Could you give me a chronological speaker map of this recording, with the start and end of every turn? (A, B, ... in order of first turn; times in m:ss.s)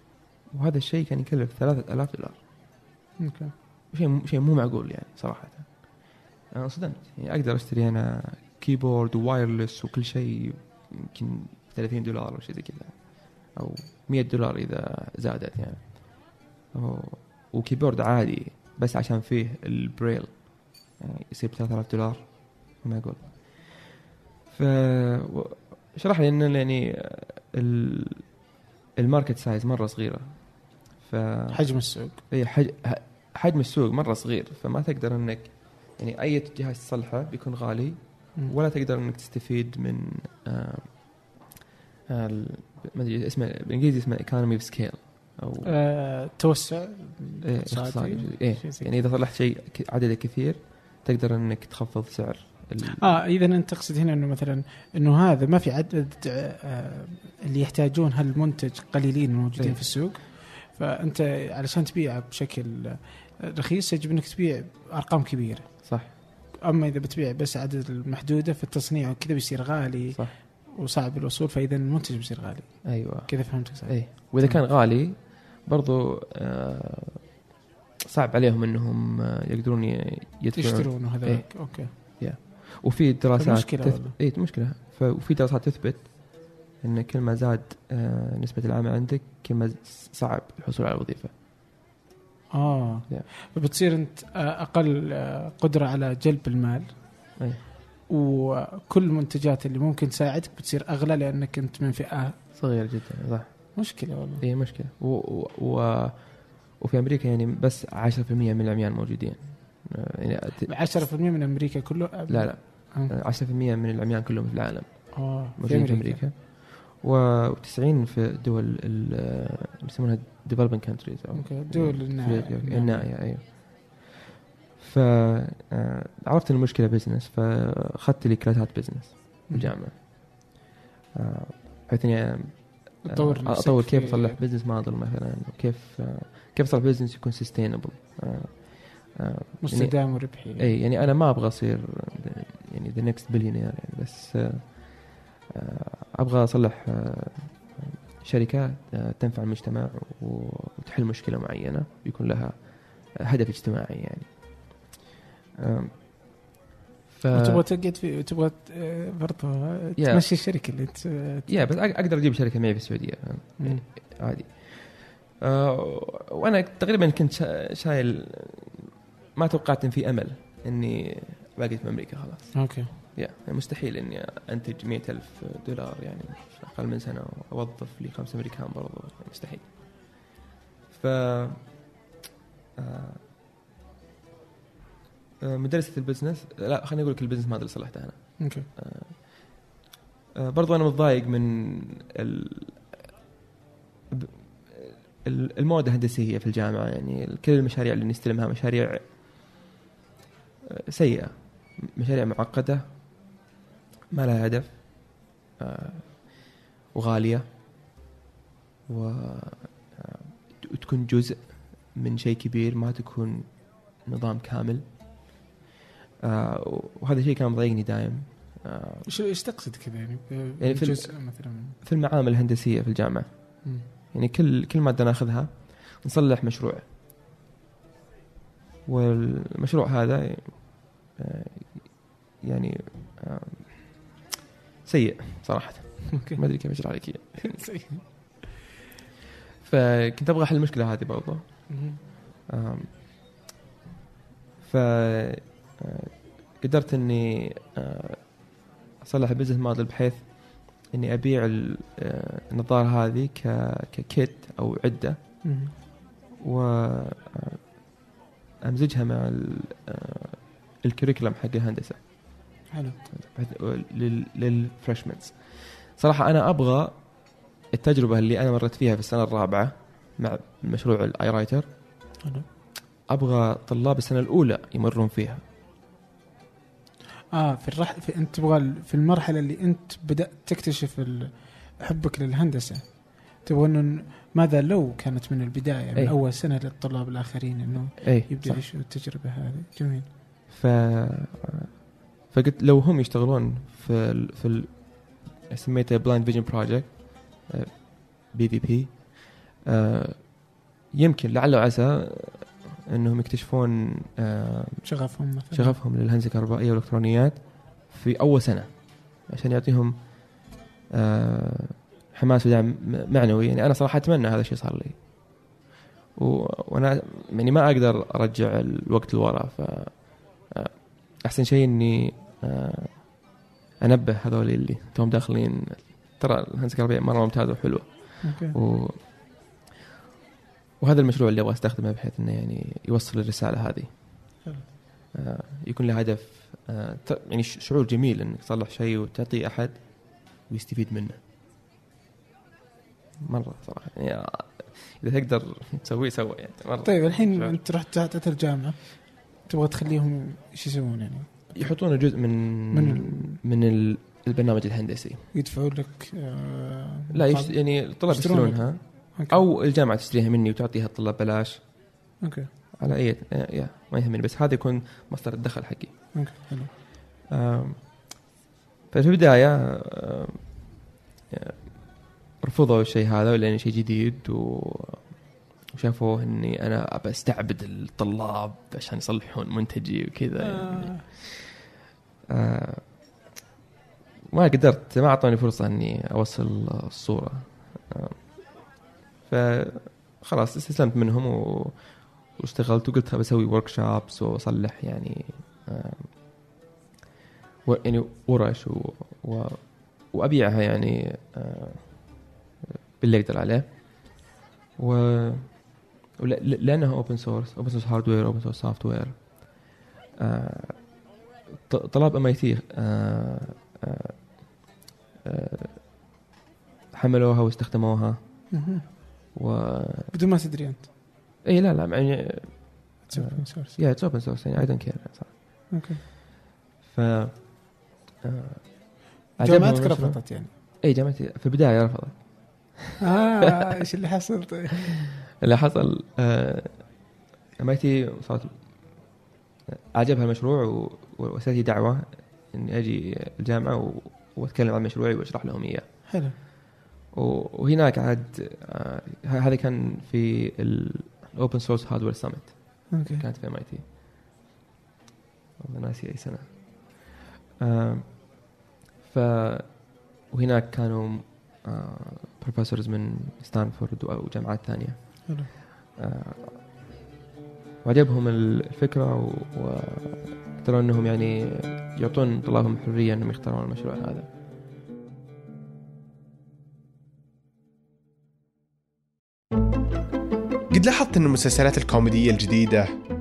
0:00.5-0:02.4 A
0:03.2-0:03.5 B
0:03.9-0:28.3 A
0:29.0-0:40.9 A
0:31.5-0:32.2 B
0:42.1-0:45.7 A
0:45.6-0:49.0 B
0:47.4-0:53.1 A
0:52.9-1:14.6 B
0:59.6-0:59.9 A
1:05.8-1:06.1 A
1:12.8-1:17.3 A
1:18.1-1:31.3 A
1:20.5-1:21.9 B
1:23.4-1:24.2 B
1:32.5-1:37.4 B
1:38.1-1:42.3 B
1:42.5-1:50.7 A
1:43.8-1:44.4 B
1:50.7-1:53.1 B
1:52.3-2:04.2 A
1:55.1-1:56.2 B
2:01.4-2:03.1 B
2:04.8-2:10.6 A
2:09.5-2:09.7 B
2:11.2-2:34.9 A
2:13.0-2:14.4 B
2:19.6-2:20.7 B
2:35.6-2:36.3 A
2:37.1-2:37.6 A
2:37.3-2:41.5 B
2:40.0-2:40.6 A
2:41.5-3:00.2 A
2:52.5-2:52.9 B
3:00.9-3:01.7 A
3:02.8-3:03.2 A
3:05.4-3:09.6 A
3:08.4-3:08.6 B
3:10.4-3:13.0 A
3:14.1-3:19.1 A
3:20.7-3:22.8 A
3:24.1-3:27.4 A
3:28.9-3:34.8 A
3:36.2-3:39.1 A
3:39.1-3:41.8 B
3:40.6-3:41.1 A
3:41.8-3:46.8 A
3:48.8-3:54.1 A
3:54.8-3:57.6 A
3:56.1-3:56.4 B
3:57.5-3:58.0 B
3:59.6-4:01.9 A
4:01.7-4:02.0 B
4:02.5-4:02.9 A
4:04.6-4:15.5 A
4:15.4-4:15.7 B
4:16.4-4:17.6 A
4:18.6-4:22.5 A
4:22.7-4:23.0 B
4:23.1-4:27.1 A
4:27.7-4:31.7 A
4:33.1-4:35.4 A
4:37.3-4:50.1 B
4:48.0-4:48.6 A
4:50.5-4:51.7 A
4:52.2-5:04.9 A
5:04.8-5:05.7 B
5:05.5-5:15.5 A
5:16.1-5:29.0 A
5:28.2-5:28.6 B
5:30.8-5:34.4 A
5:35.1-5:41.2 A
5:43.2-5:47.6 A
5:46.8-5:51.7 B
5:51.5-5:55.2 A
5:52.7-5:53.4 B
5:55.3-5:59.4 B
5:57.1-6:01.6 A
6:02.2-6:02.5 B
6:02.8-6:06.1 A
6:06.1-6:06.7 B
6:07.3-6:08.1 A
6:08.9-6:10.5 A
6:11.3-6:21.5 A
6:20.4-6:21.0 B
6:22.3-6:22.8 A
6:24.3-6:28.3 A
6:29.2-6:36.1 A
6:37.6-6:42.3 A
6:43.0-6:51.0 A
6:51.6-6:54.6 A
6:55.2-6:56.0 A
6:56.9-6:58.5 A
6:58.5-6:58.8 B
6:59.3-7:00.1 A
7:00.1-7:00.8 B
7:01.4-7:05.6 A
7:03.1-7:04.6 B
7:05.3-7:06.0 B
7:06.8-7:12.9 A
7:09.4-7:10.5 B
7:13.0-7:14.9 B
7:15.4-7:17.0 A
7:17.6-7:19.1 A
7:19.8-7:26.1 A
7:26.1-7:26.3 B
7:27.1-7:33.8 A
7:32.9-7:33.2 B
7:35.6-7:38.5 A
7:39.0-7:45.4 A
7:46.0-7:46.6 A
7:47.8-7:54.3 A
8:00.7-8:02.8 C